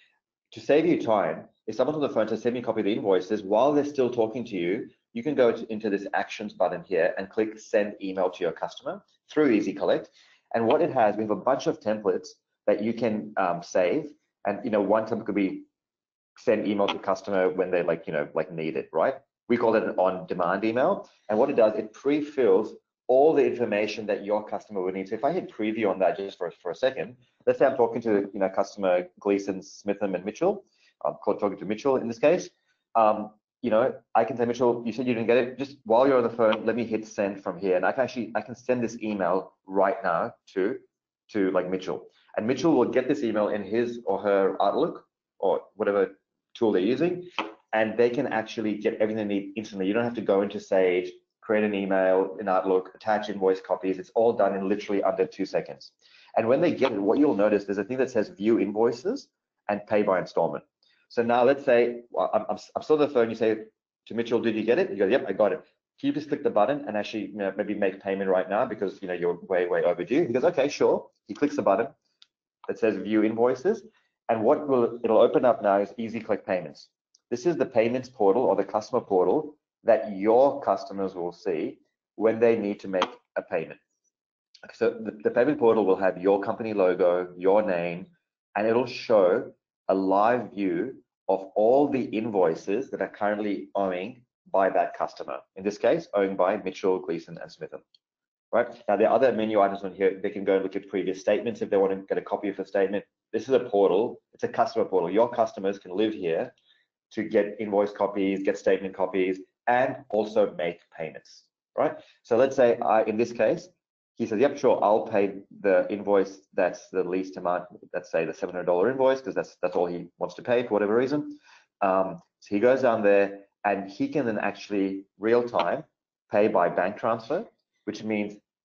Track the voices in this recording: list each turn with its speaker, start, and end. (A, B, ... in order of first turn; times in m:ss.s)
0:00.5-0:15.7 A
0:16.4-1:11.9 A
1:12.7-1:23.8 A
1:24.7-1:37.8 A
1:38.5-1:46.5 A
1:47.1-2:08.4 A